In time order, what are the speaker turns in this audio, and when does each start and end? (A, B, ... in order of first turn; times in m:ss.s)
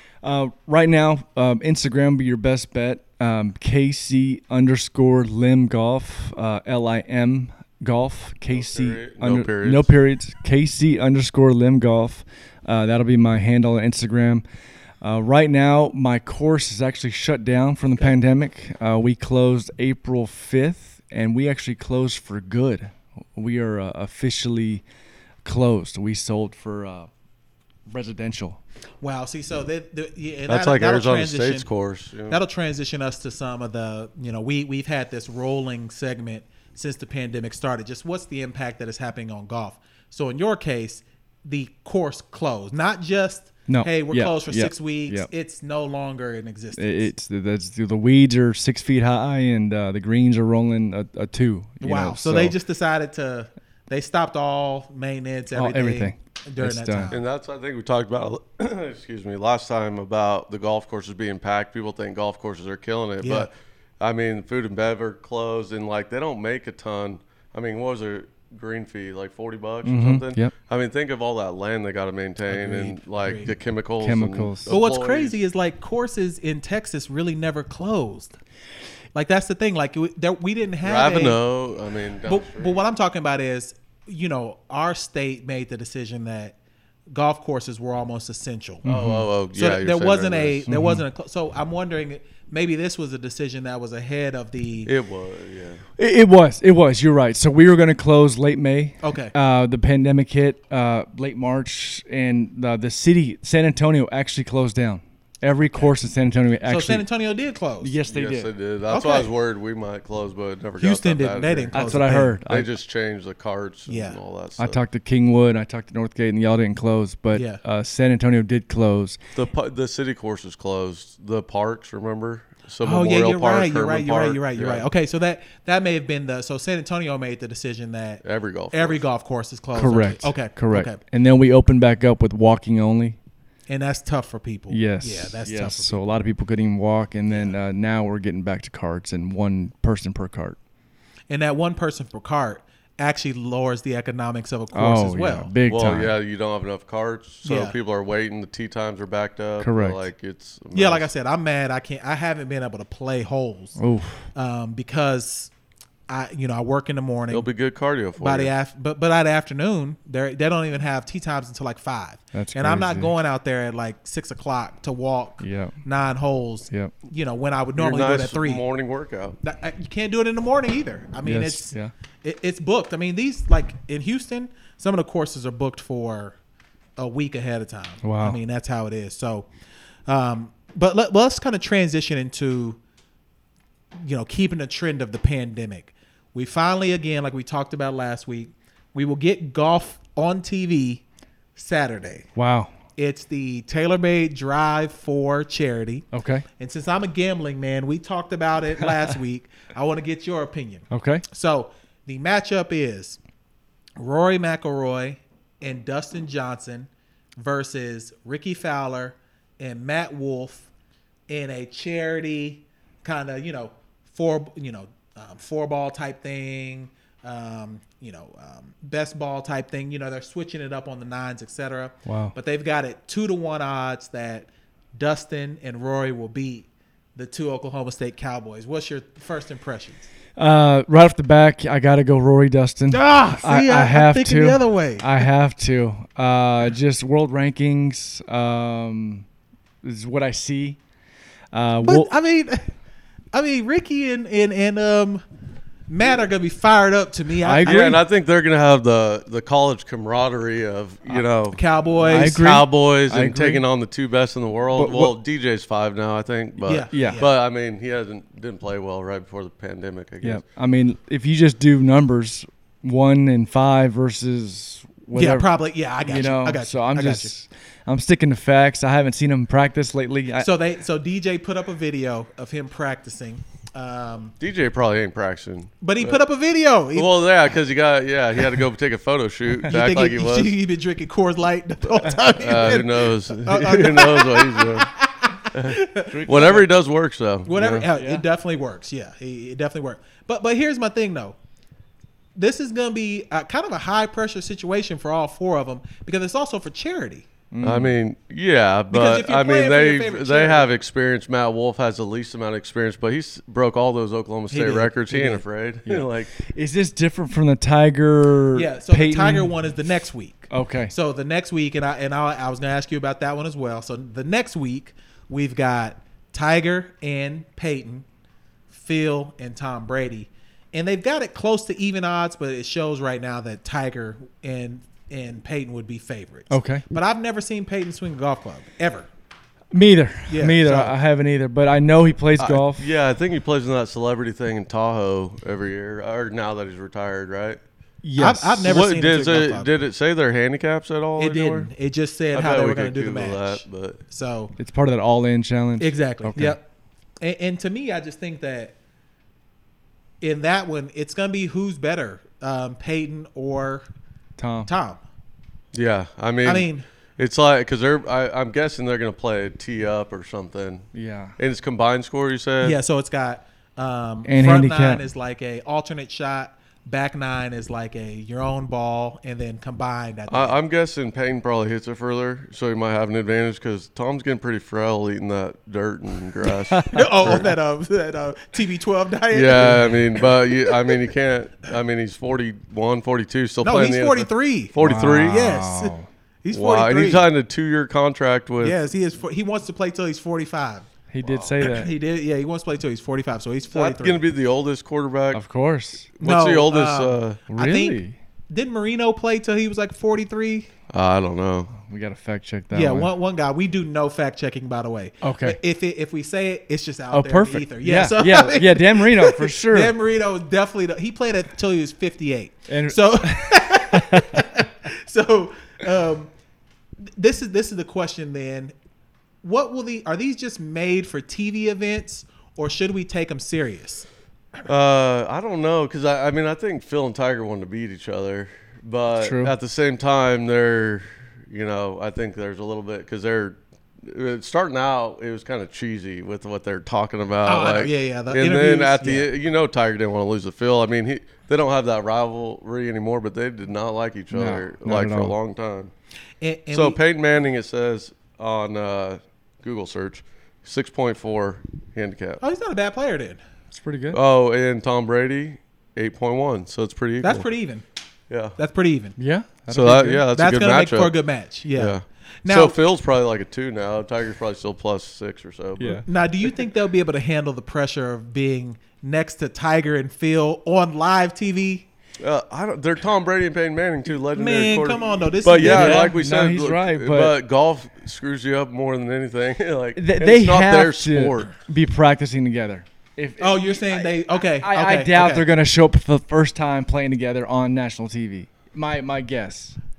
0:00.2-0:14.4 A
0:08.5-0:09.9 B
0:15.0-0:24.8 A
0:25.4-0:27.1 A
0:27.9-0:28.6 A
0:29.0-0:31.7 C
0:30.5-0:32.4 B
0:32.3-0:47.1 C
0:43.7-0:45.3 A
0:46.8-0:52.6 A
0:51.8-0:57.2 C
0:55.5-0:57.1 A
0:57.1-1:15.4 B
1:03.2-1:03.5 C
1:09.8-1:10.5 A
1:12.5-1:13.5 C
1:14.0-1:14.7 A
1:14.7-1:18.4 C
1:19.2-1:21.4 C
1:20.8-1:22.8 B
1:22.3-1:26.6 C
1:27.1-1:28.9 C
1:28.8-1:29.3 A
1:28.9-1:30.6 B
1:29.5-1:34.9 C
1:30.7-1:31.0 A
1:34.9-1:35.8 B
1:36.0-1:47.0 A
1:39.0-1:39.3 C
1:46.7-1:48.0 C
1:47.8-1:48.5 A
1:48.1-1:54.8 B
1:48.9-1:49.3 C
1:50.8-1:52.4 C
1:51.7-1:52.7 A
1:53.9-1:54.2 C
1:54.6-1:59.2 A
1:57.3-1:57.6 C
1:59.4-2:04.9 B
2:02.8-2:11.0 C
2:08.2-2:09.0 B
2:09.8-2:13.2 A
2:13.7-2:16.0 C
2:14.7-2:20.6 A
2:21.3-2:25.5 C
2:24.7-2:26.1 A
2:25.7-2:31.1 B
2:27.4-2:27.8 C
2:29.6-2:30.0 A
2:30.7-2:33.8 C
2:33.8-2:34.3 A
2:34.3-2:35.5 C
2:36.1-2:37.5 C
2:37.3-2:38.5 B
2:38.2-2:48.6 C
2:42.3-2:43.1 A
2:45.4-2:45.8 A
2:47.8-2:49.4 B
2:49.4-2:56.4 C
2:51.2-2:51.9 A
2:57.0-2:59.5 C
2:58.0-2:58.4 A
3:00.1-3:02.8 C
3:04.0-3:11.0 C
3:11.6-3:12.3 C
3:12.4-3:12.7 A
3:13.0-3:16.0 C
3:16.1-3:16.4 A
3:16.6-3:23.2 C
3:20.9-3:21.2 A
3:24.0-3:30.7 C
3:31.3-3:50.1 C
3:42.1-3:42.3 A
3:50.4-3:59.3 A
3:52.9-3:55.3 C
3:59.8-4:00.8 A
4:01.5-4:02.1 A
4:01.8-4:02.7 C
4:03.3-4:05.2 C
4:05.9-4:07.9 C
4:07.4-4:08.0 A
4:07.6-4:20.4 B
4:11.5-4:12.4 C
4:12.0-4:13.6 A
4:14.8-4:15.1 A
4:16.6-4:17.3 C
4:16.9-4:17.2 A
4:20.2-4:25.5 A
4:25.1-4:27.3 C
4:26.0-4:30.5 A
4:30.4-4:34.3 C
4:34.4-4:36.2 B
4:35.8-4:37.1 C
4:37.0-4:40.5 B
4:39.7-4:46.3 C
4:42.2-4:44.9 B
4:45.5-4:47.9 B
4:46.1-4:46.7 A
4:47.5-4:51.4 C
4:47.9-4:48.2 A
4:52.4-4:57.3 C
4:57.5-4:58.0 A
4:57.6-5:06.3 B
4:58.9-5:00.7 C
5:04.5-5:05.4 C
5:05.9-5:09.5 A
5:08.5-5:18.0 C
5:10.5-5:10.9 A
5:18.7-5:29.1 C
5:26.5-5:26.9 A
5:29.7-5:32.9 A
5:30.3-5:30.9 C
5:32.4-5:37.6 B
5:38.0-5:38.8 A
5:38.2-5:39.7 C
5:38.6-5:41.7 B
5:41.2-5:44.5 C
5:42.3-5:44.0 B
5:44.6-5:46.6 A
5:45.8-5:46.6 C
5:47.2-5:48.8 C
5:50.2-5:53.9 C
5:54.4-5:54.7 A
5:54.7-5:55.0 C
5:55.7-6:02.8 B
5:56.4-5:56.8 C
6:00.9-6:01.4 A
6:02.6-6:10.6 C
6:04.2-6:05.0 A
6:10.3-6:17.5 B
6:16.7-6:17.0 A
6:16.9-6:20.9 C
6:19.3-6:25.5 B
6:23.6-6:27.3 C
6:24.8-6:26.1 A
6:26.5-6:28.8 B
6:28.6-6:30.9 C
6:31.1-6:31.9 A
6:31.2-6:31.5 B
6:31.6-6:34.2 C
6:33.7-6:35.4 B
6:35.3-6:36.1 A
6:36.2-6:37.4 B
6:36.2-6:40.7 C
6:37.5-6:38.2 A
6:40.9-6:41.7 B
6:41.8-6:43.1 A
6:42.7-6:56.3 C
6:45.2-6:45.6 A
6:47.1-6:50.0 A
6:52.7-6:54.4 A
6:57.1-6:58.7 C
6:59.4-7:04.1 C
7:04.7-7:25.9 B
7:09.2-7:09.5 A
7:17.4-7:19.3 C
7:24.3-7:25.4 A
7:26.4-7:27.0 C
7:26.7-7:32.4 B
7:32.4-7:33.4 C
7:33.7-7:34.2 A
7:34.1-7:37.4 B
7:37.2-7:37.8 C
7:38.3-7:38.6 B
7:38.6-7:39.2 C
7:39.2-7:40.2 A
7:39.7-7:41.1 B
7:40.3-7:42.8 C
7:41.8-7:46.0 B
7:45.8-7:46.1 A
7:46.1-7:51.9 C
7:52.2-8:01.6 B
7:54.3-7:56.1 C
7:55.6-7:57.4 A
8:00.0-8:04.1 A
8:03.4-8:05.4 C
8:04.6-8:09.8 A